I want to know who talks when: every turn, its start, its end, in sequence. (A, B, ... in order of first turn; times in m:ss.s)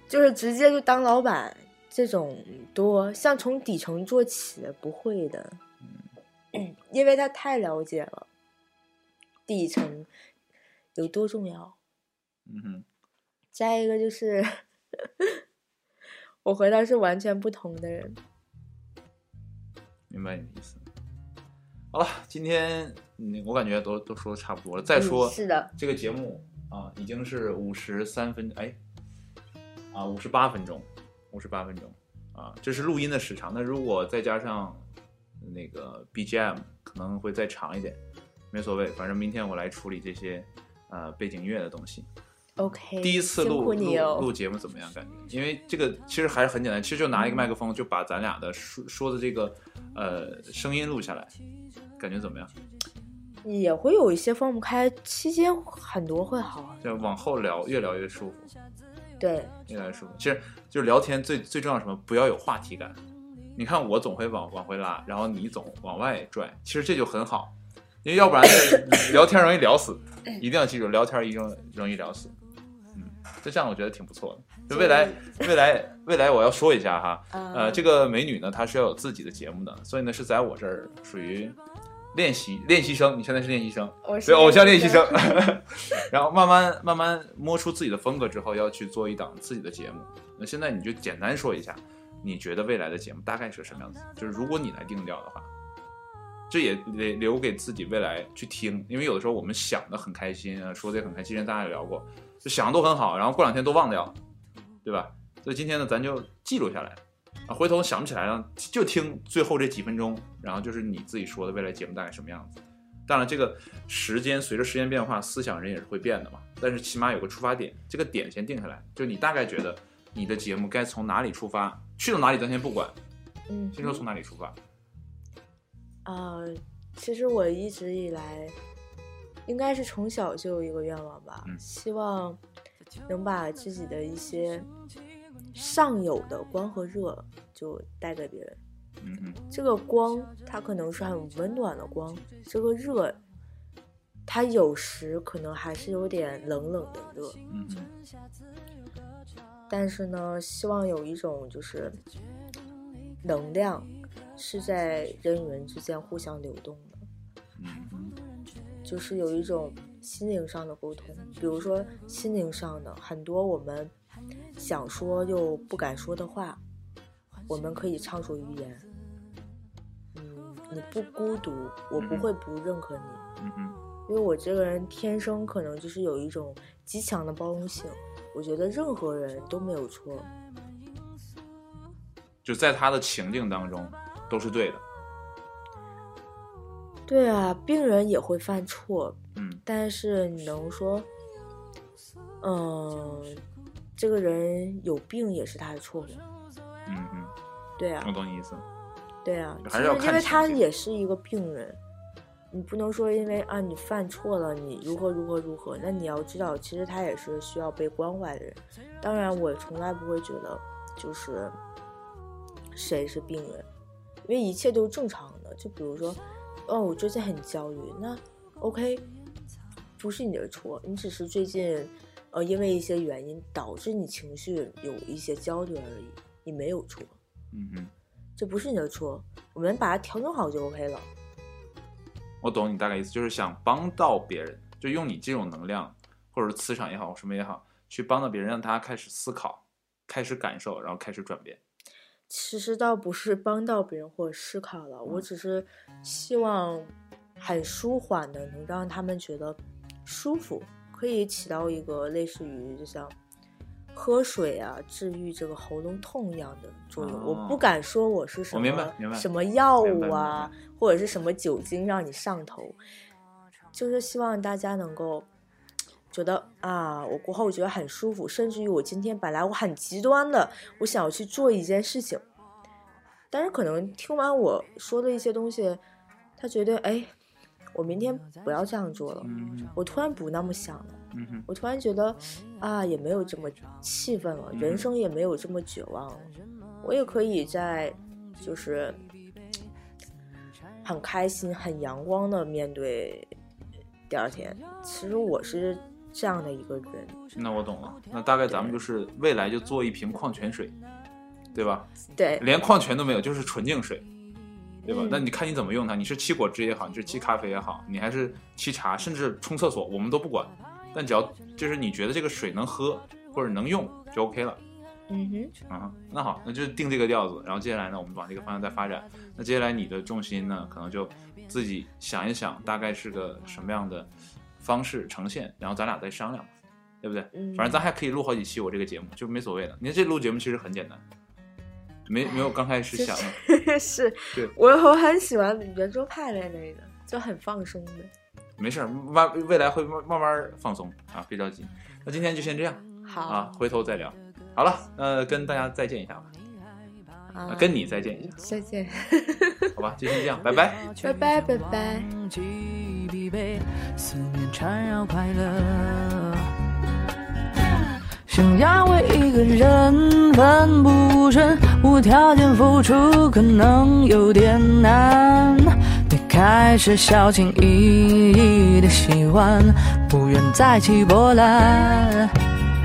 0:00.1-0:05.6 A
0:06.5-0:08.3 A
0:09.5-0:10.1 A
0:11.0-0:11.8 A
0:12.5-0:12.9 B
0:13.5-0:15.4 A
0:16.4-0:18.2 A
0:20.1-0:20.9 B
0:21.9-0:28.8 B
0:24.9-0:25.7 A
0:29.9-0:34.8 B
0:35.4-0:38.0 B
0:38.5-0:42.1 B
0:42.6-0:44.3 A
0:43.0-0:51.3 B
0:47.1-0:47.5 A
0:52.0-0:52.5 B
0:53.4-0:57.1 A
0:56.8-0:58.5 B
0:59.2-0:59.5 A
0:59.7-1:03.0 B
1:03.6-1:07.5 B
1:08.0-1:12.4 B
1:12.9-1:21.6 B
1:14.7-1:15.4 A
1:17.3-1:17.9 A
1:22.1-1:35.5 B
1:24.0-1:25.6 A
1:36.5-1:44.2 B
1:44.8-2:03.0 B
2:03.5-2:04.0 A
2:03.8-2:04.6 B
2:06.0-2:08.6 A
2:09.5-2:12.4 A
2:13.1-2:14.7 A
2:15.5-2:18.6 A
2:19.0-2:19.4 B
2:19.5-2:23.2 A
2:24.3-2:27.4 A
2:27.5-2:27.9 B
2:29.7-2:32.0 A
2:33.2-2:37.1 A
2:37.6-2:38.2 B
2:38.8-2:43.9 A
2:44.6-2:46.6 A
2:47.5-2:48.9 A
2:50.1-2:53.3 A
2:52.0-2:52.3 B
2:53.4-2:53.8 B
2:54.1-3:00.3 A
3:02.4-3:04.8 B
3:07.1-3:11.1 A
3:09.4-3:09.6 B
3:12.4-3:13.4 A
3:14.0-3:16.2 A
3:16.9-3:17.3 B
3:17.8-3:18.1 A
3:18.0-3:18.7 B
3:19.2-3:21.8 A
3:19.6-3:20.6 B
3:22.5-3:31.6 A
3:32.7-3:33.7 A
3:34.2-3:39.1 A
3:40.0-3:47.2 A
3:47.5-3:47.9 B
3:48.4-3:51.1 A
3:52.4-4:01.6 B
4:02.3-4:13.2 A
4:13.9-4:22.8 A
4:17.0-4:17.7 B
4:18.5-4:19.3 B
4:19.8-4:20.6 B
4:23.7-4:25.3 A
4:26.1-4:32.2 A
4:33.3-4:35.8 A
4:36.4-4:37.1 A
4:37.8-4:49.0 A
4:39.2-4:39.8 B
4:41.1-4:41.5 B
4:44.5-4:44.9 B
4:50.8-4:53.3 A
4:54.1-4:57.2 A
4:57.3-5:00.8 B
4:58.5-4:58.8 A
5:01.5-5:01.9 B
5:02.2-5:02.4 A
5:02.4-5:04.1 B
5:04.8-5:14.6 B
5:04.9-5:05.3 A
5:15.1-5:15.5 A
5:15.7-5:31.0 B
5:27.3-5:27.8 A
5:32.1-5:33.4 B
5:32.2-5:38.1 A
5:38.6-5:46.3 B
5:43.0-5:43.5 A
5:47.3-5:49.8 A
5:47.5-5:48.3 B
5:49.8-5:50.8 B
5:50.8-5:56.5 C
5:51.0-5:52.1 A
5:58.3-6:12.4 C